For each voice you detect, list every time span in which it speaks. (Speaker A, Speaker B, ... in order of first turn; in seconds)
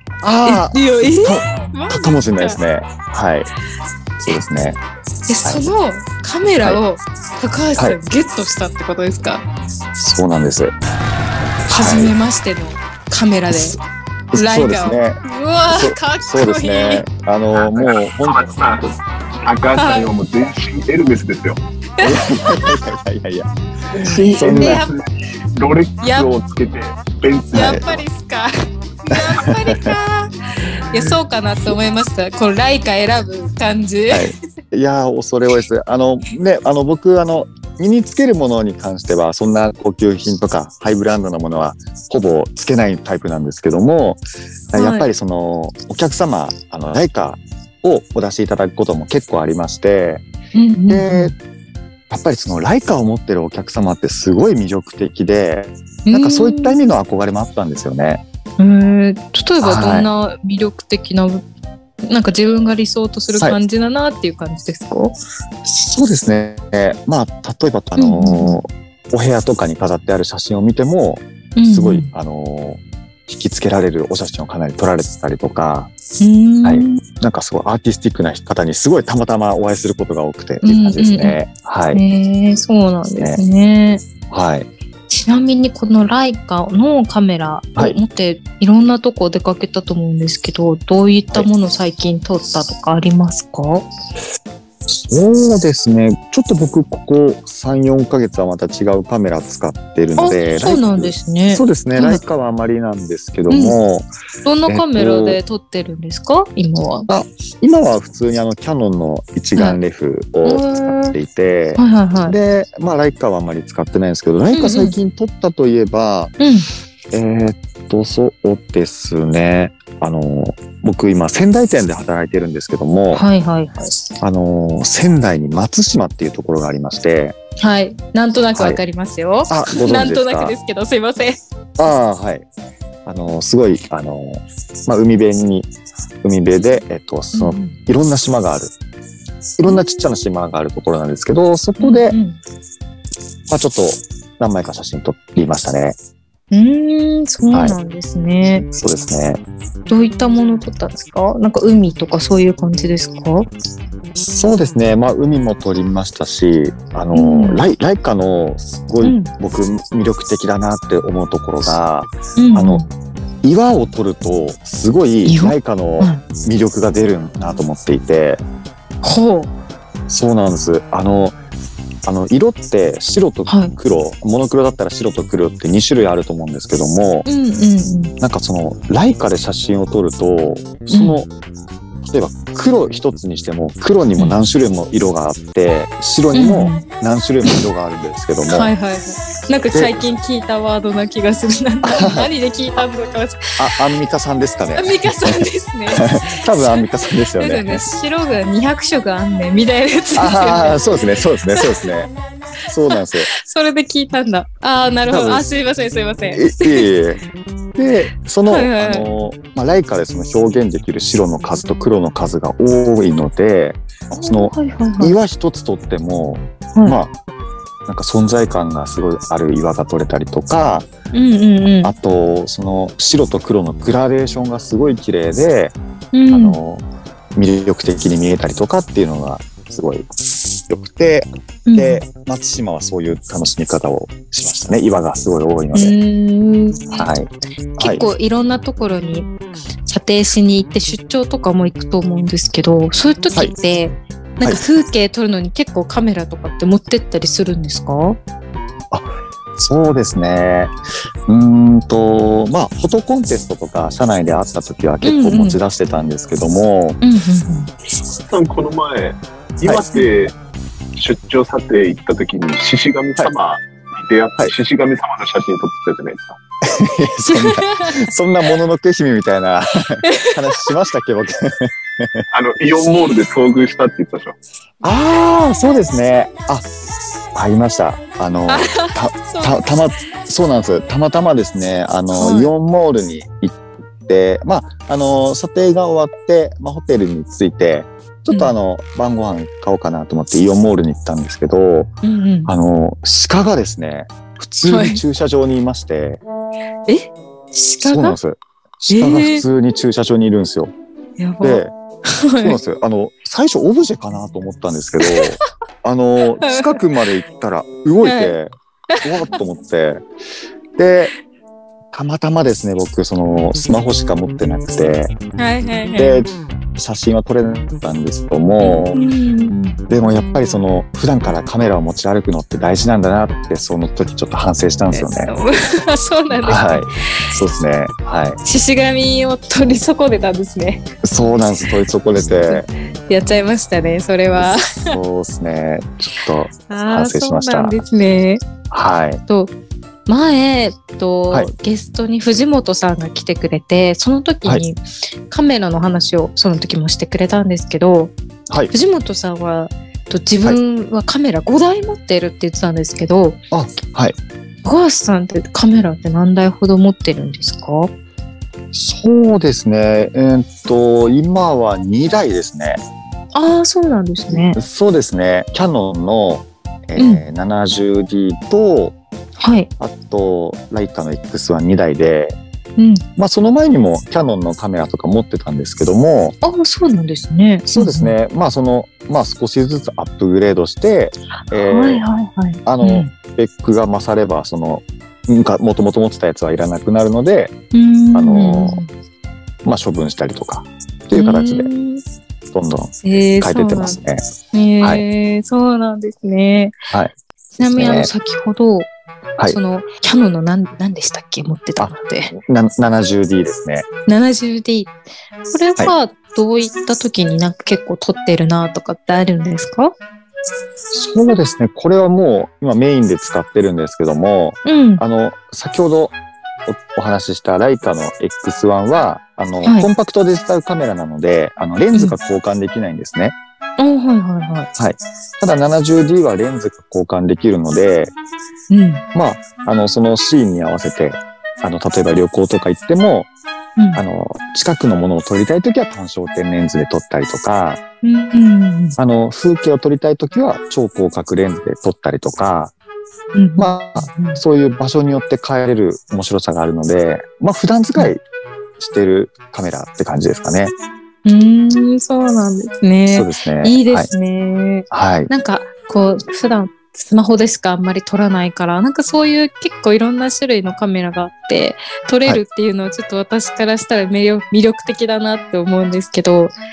Speaker A: 0.2-3.5, 4.2-4.8, 5.4-5.7, 9.9-10.7, 11.7-12.1, 14.3-18.8, 22.0-23.5, 24.1-24.8, 27.5-27.8, 29.1-29.9, 34.1-44.2, 44.7-50.2, 50.9-51.3, 52.1-58.2, 59.6-60.1, 65.6-75.9, 76.6-82.0, 84.3-84.7, 94.9-104.1, 104.7-105.4, 107.1-116.3, 117.1-123.2, 124.2-127.3, 128.5-128.8, 129.5-130.5, 131.8-132.5, 133.1-135.7, 136.2-138.7, 139.6-142.2, 143.5-146.0, 147.5-147.8, 148.7-149.4, 154.3-162.8, 163.4-168.4, 170.1-171.3, 172.0-177.2, 178.2-181.3, 182.0-188.7, 189.7-190.0, 191.8-192.3, 193.6-197.9, 200.2-202.1, 202.7-203.3, 205.1-205.4, 206.3-207.2, 207.7-217.1, 217.8-220.9, 221.8-225.8, 226.3-230.1, 230.7-235.9, 236.9-238.0, 248.9-250.7, 251.3-257.0, 259.6-260.0, 266.6-272.2, 274.8-276.7, 277.3-291.9, 292.4-296.2, 297.8-300.7, 301.4-301.7, 302.4-308.5, 309.0-310.0, 310.8-311.1, 311.9-315.1, 315.9-319.0, 319.9-325.3, 326.3-328.4, 331.0-332.6, 334.4-337.8, 338.7-339.2, 353.5-354.1, 358.7-362.8, 364.5-368.9, 369.8-372.4, 373.2-376.4, 377.7-382.0, 382.6-387.5, 388.1-388.8, 389.6-391.7, 392.5-394.2, 396.9-398.1, 401.8-403.9, 410.9-416.1, 416.7-423.4, 424.8-428.1, 429.1-433.3, 433.9-437.8, 439.0-442.7, 443.6-448.2, 448.8-450.7, 453.1-454.1, 454.9-455.3
Speaker B: 0.5-2.6, 5.3-9.4, 11.7-13.8, 14.3-17.1, 19.8-20.1, 22.0-22.7, 24.1-25.0, 26.0-26.3, 27.5-28.5, 29.0-34.3, 44.7-45.1, 50.5-51.3, 56.0-56.8, 58.6-61.4, 62.0-65.1, 68.0-68.6, 71.5-72.1, 76.2-77.0, 80.6-81.4, 81.9-84.0, 85.1-93.9, 100.2-102.2, 103.5-103.8, 104.4-107.1, 110.4-111.2, 111.8-112.3, 114.5-114.9, 116.4-116.7, 123.1-124.0, 127.6-131.4, 137.3-137.8, 141.8-142.4, 146.5-148.7, 149.9-153.5, 157.1-157.7, 159.0-159.3, 162.4-162.9, 165.2-166.2, 169.0-169.5, 173.5-173.7, 177.2-178.1, 180.9-181.2, 184.2-184.5, 186.3-186.8, 188.5-193.6, 194.7-196.4, 197.4-201.7, 202.9-206.9, 208.4-209.1, 214.1-215.1, 221.1-221.9, 226.1-226.6, 231.7-232.0, 235.7-237.1, 237.8-239.3, 239.8-248.2, 255.0-255.6, 257.0-257.7, 267.2-268.0, 270.0-270.6, 278.5-279.6, 282.1-282.5, 288.3-288.6, 292.0-292.5, 294.7-295.0, 296.9-298.1, 298.9-299.4, 301.2-302.6, 306.4-306.8, 308.0-308.4, 315.4-316.2, 318.6-319.8, 324.9-327.2, 328.4-330.9, 332.5-334.9, 336.7-338.4, 339.3-339.5, 340.1-348.1, 348.7-353.4, 354.6-357.9, 363.3-364.6, 367.0-367.2, 369.4-369.7, 372.8-373.0, 376.4-378.1, 381.5-383.1, 387.7-388.9, 391.1-392.0, 393.0-394.0, 394.5-396.8, 397.6-398.9, 399.4-402.3, 404.1-404.9, 405.5-409.9, 414.6-415.0, 423.8-424.7, 428.7-429.0, 438.0-439.0, 443.3-444.4, 451.2-466.5
Speaker C: 17.6-21.6, 24.0-28.0, 258.3-260.4, 260.9-266.4, 272.3-274.4